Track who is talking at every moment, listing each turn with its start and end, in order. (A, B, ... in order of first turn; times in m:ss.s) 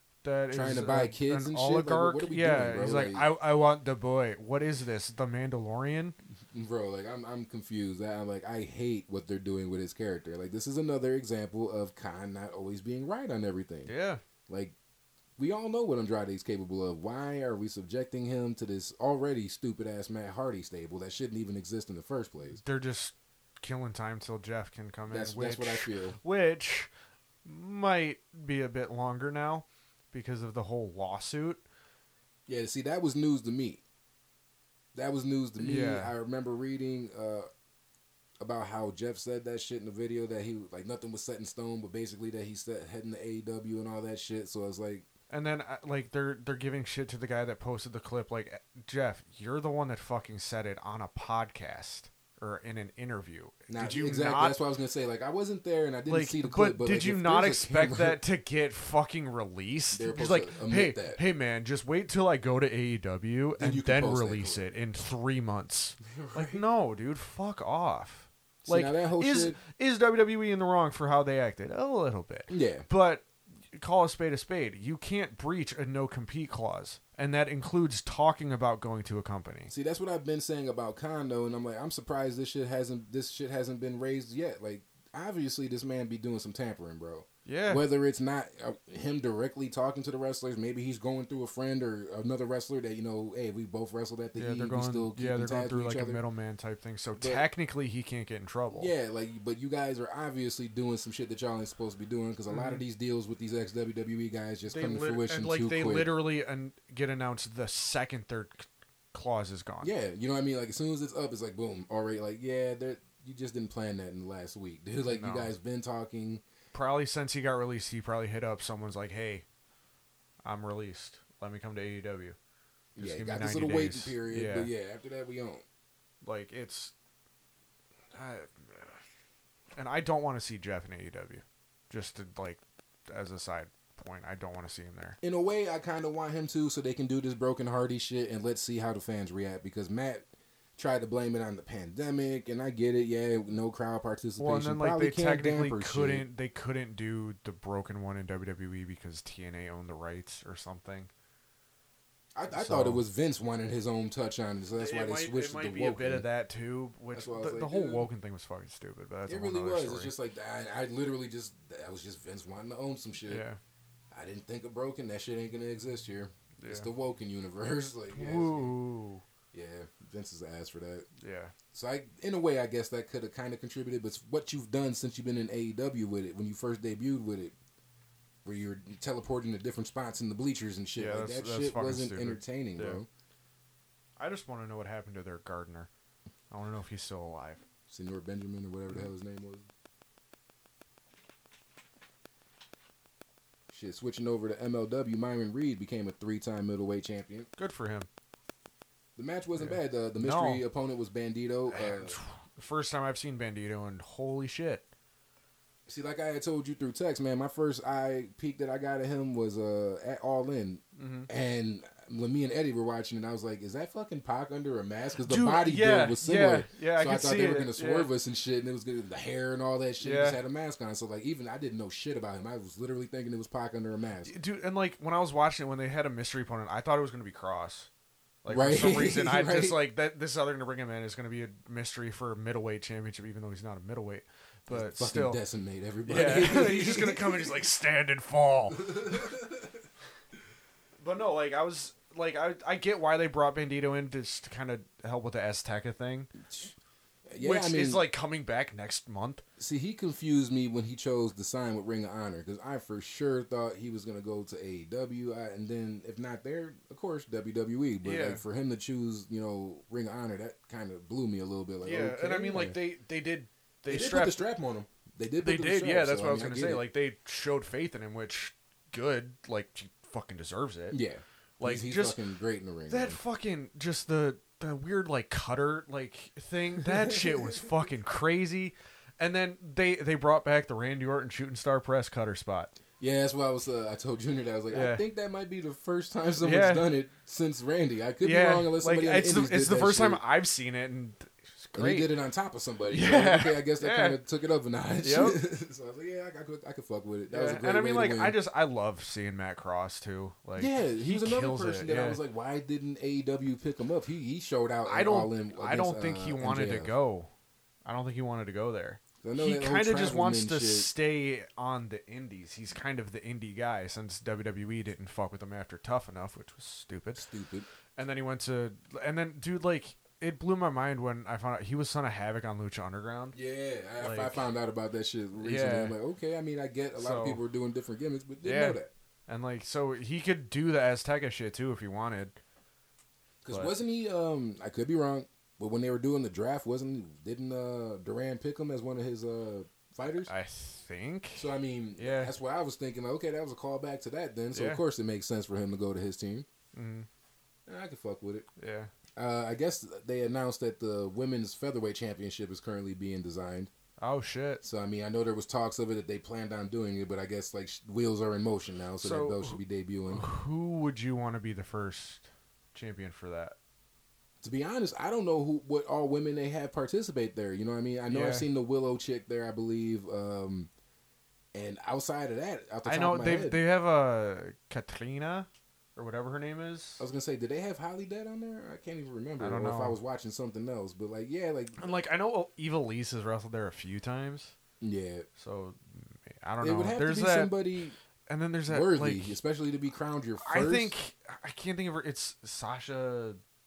0:00.2-0:06.2 A
0:00.5-0:03.3 B
0:06.5-0:13.9 B
0:13.9-0:14.2 A
0:14.5-0:14.8 B
0:15.4-0:22.6 B
0:22.6-0:26.9 A
0:25.1-0:26.2 B
0:27.4-0:31.6 A
0:32.5-0:33.8 B
0:35.0-0:37.5 B
0:35.6-0:36.1 A
0:38.4-0:45.1 B
0:45.3-0:54.6 A
0:53.7-0:58.2 B
0:56.1-1:19.7 A
0:59.9-1:01.2 B
1:03.6-1:04.7 B
1:06.0-1:06.6 B
1:08.6-1:09.6 B
1:12.5-1:12.9 B
1:19.7-1:36.2 B
1:27.5-1:27.8 A
1:34.4-1:38.9 A
1:37.2-1:37.5 B
1:38.7-1:46.2 B
1:42.5-1:42.8 A
1:44.7-1:49.9 A
1:49.8-1:56.4 B
1:55.1-1:55.5 A
1:56.7-1:59.5 A
2:00.4-2:02.4 A
2:03.0-2:05.6 B
2:03.0-2:04.7 A
2:06.2-2:06.9 A
2:08.1-2:09.0 A
2:09.8-2:15.2 A
2:15.2-2:26.2 B
2:24.4-2:31.1 A
2:32.4-2:36.2 B
2:32.5-2:33.0 A
2:34.8-2:40.1 A
2:37.1-2:38.1 B
2:39.3-2:43.4 B
2:43.3-2:43.6 A
2:44.1-2:48.7 B
2:46.6-2:46.9 A
2:48.1-2:49.2 A
2:49.5-2:51.1 B
2:51.2-2:51.5 A
2:51.7-2:57.6 B
2:58.4-3:03.1 B
3:01.0-3:03.0 A
3:04.2-3:05.9 A
3:06.5-3:07.6 A
3:07.9-3:09.7 B
3:13.7-3:17.5 B
3:17.6-3:18.1 A
3:19.2-3:22.2 B
3:19.6-3:20.6 A
3:21.7-3:24.9 A
3:25.9-3:44.3 B
3:31.0-3:31.3 A
3:35.2-3:38.1 A
3:40.0-3:40.4 A
3:44.2-3:47.9 A
3:48.4-3:55.4 A
3:48.5-3:49.8 B
3:54.7-3:57.7 B
3:56.1-3:59.3 A
3:58.7-3:59.7 B
4:01.0-4:06.3 A
4:06.4-4:06.8 B
4:07.3-4:08.0 B
4:07.4-4:09.4 A
4:09.6-4:22.8 B
4:18.0-4:18.4 A
4:21.8-4:24.4 A
4:23.9-4:26.9 B
4:25.4-4:31.0 A
4:30.9-4:33.2 B
4:31.6-4:32.2 A
4:32.9-4:42.8 A
4:36.8-4:37.6 B
4:43.0-4:50.2 B
4:44.7-4:45.0 A
4:46.4-4:46.9 A
4:48.2-4:52.1 A
4:51.8-4:58.4 B
4:52.9-4:54.2 A
4:55.0-4:55.4 A
4:57.3-5:02.2 A
5:00.6-5:06.9 B
5:04.9-5:07.3 A
5:07.8-5:17.3 A
5:09.2-5:10.9 B
5:17.2-5:17.7 B
5:18.0-5:23.4 A
5:23.3-5:28.9 B
5:24.0-5:24.5 A
5:25.4-5:26.0 A
5:27.0-5:27.4 A
5:28.4-5:32.4 A
5:33.4-5:40.3 B
5:40.3-5:42.4 A
5:41.4-5:46.5 B
5:44.5-5:44.8 A
5:46.7-5:47.1 A
5:47.7-5:48.5 B
5:48.6-5:48.9 A
5:49.2-5:53.7 B
5:54.0-5:54.6 A
5:54.6-6:00.2 B
5:59.0-6:03.6 A
6:04.4-6:10.7 B
6:08.1-6:08.5 A
6:11.5-6:13.6 B
6:12.8-6:17.0 A
6:17.0-6:21.8 B
6:19.4-6:20.0 A
6:21.8-6:24.6 A
6:24.8-6:25.3 B
6:25.4-6:27.7 A
6:26.6-6:28.0 B
6:28.3-6:29.4 A
6:28.7-6:30.9 B
6:30.4-6:33.4 A